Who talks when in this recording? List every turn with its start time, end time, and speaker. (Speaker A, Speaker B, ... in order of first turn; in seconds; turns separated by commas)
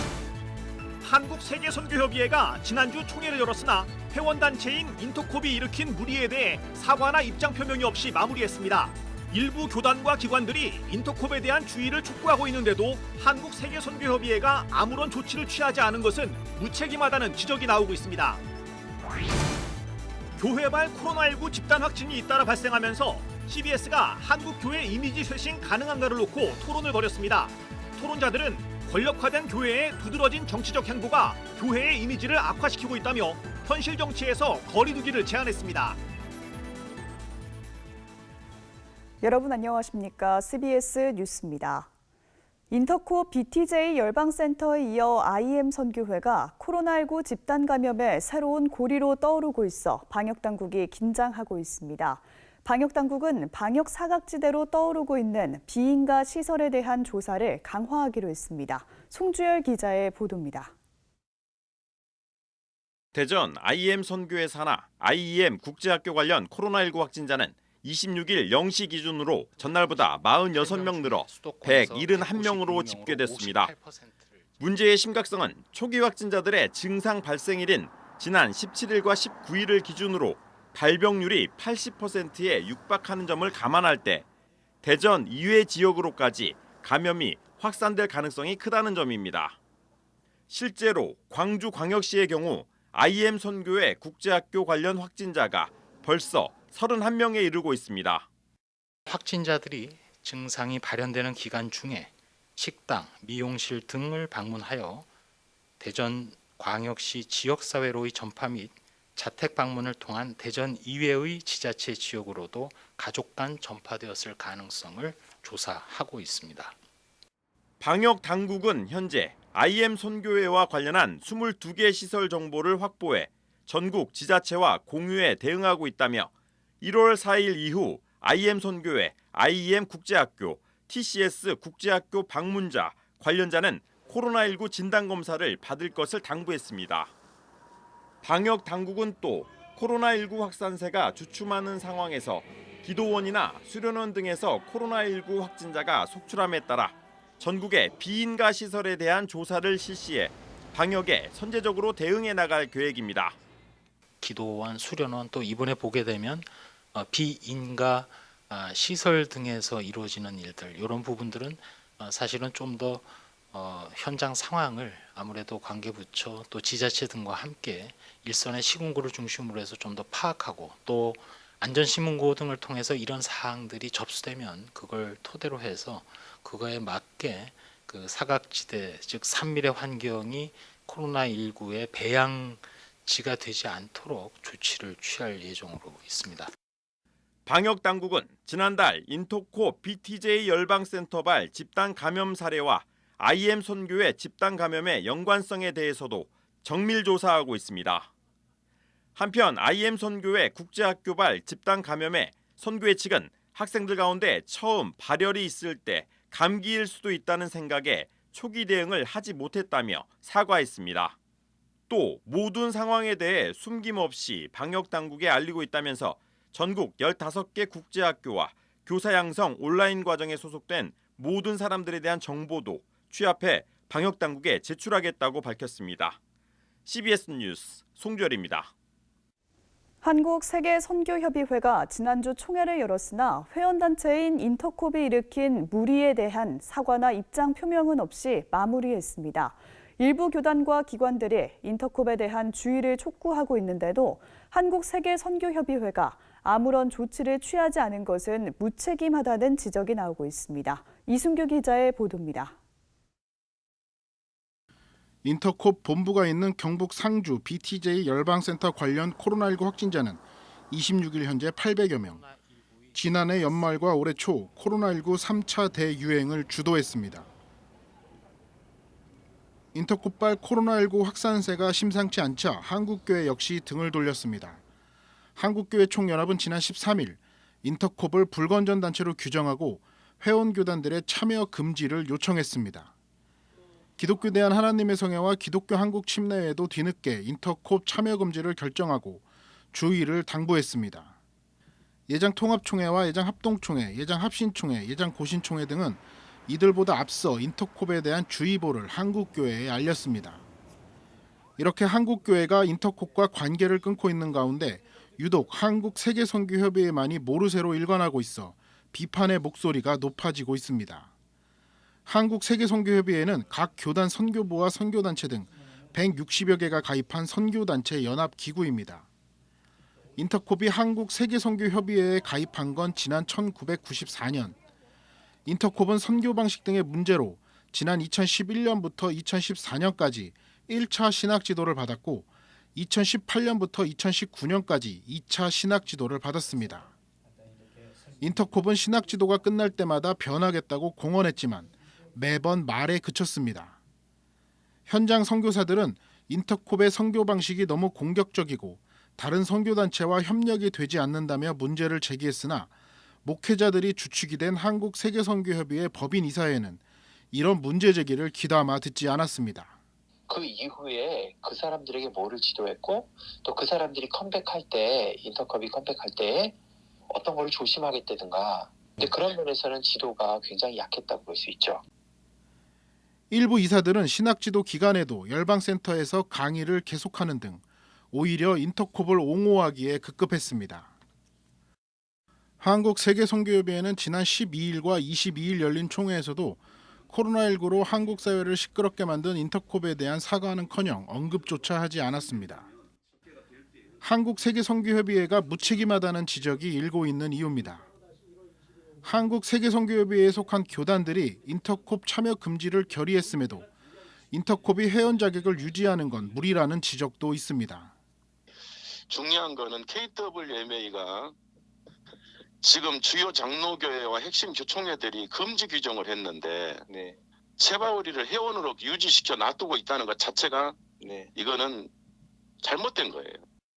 Speaker A: 1.0-18.4, Speaker A: 20.4-36.0, Speaker B: 39.2-41.9, Speaker B: 42.7-60.7, Speaker C: 63.1-73.7, Speaker D: 70.5-74.4, Speaker C: 74.6-84.2, Speaker C: 84.8-89.6, Speaker C: 90.5-98.3, Speaker D: 99.1-105.0, Speaker D: 105.8-116.8, Speaker C: 117.8-126.3, Speaker C: 126.8-137.1, Speaker C: 138.2-153.4, Speaker D: 154.2-186.5, Speaker C: 187.5-198.1, Speaker C: 199.2-211.1, Speaker C: 211.9-226.2, Speaker C: 226.8-228.7, Speaker B: 230.0-252.5, Speaker E: 255.2-260.2, Speaker E: 260.7-262.2, Speaker E: 262.9-267.3, Speaker E: 269.7-274.6, Speaker E: 275.4-282.9, Speaker E: 284.0-291.1, Speaker E: 292.1-300.4, Speaker E: 301.6-311.1, Speaker E: 312.1-319.1, Speaker E: 320.2-324.6, Speaker E: 325.4-336.9, Speaker E: 338.2-343.7, Speaker E: 344.9-352.7, Speaker E: 353.2-356.8, Speaker E: 357.3-359.7, Speaker F: 360.3-371.8, Speaker E: 373.3-377.6, Speaker E: 378.1-380.9, Speaker E: 382.6-392.7, Speaker E: 394.0-397.8, Speaker E: 399.0-403.7, Speaker E: 404.3-407.9, Speaker G: 409.1-411.3, Speaker G: 412.6-416.8, Speaker F: 416.9-417.1, Speaker G: 417.6-420.8, Speaker F: 421.0-421.3, Speaker G: 421.4-421.9, Speaker G: 422.6-423.4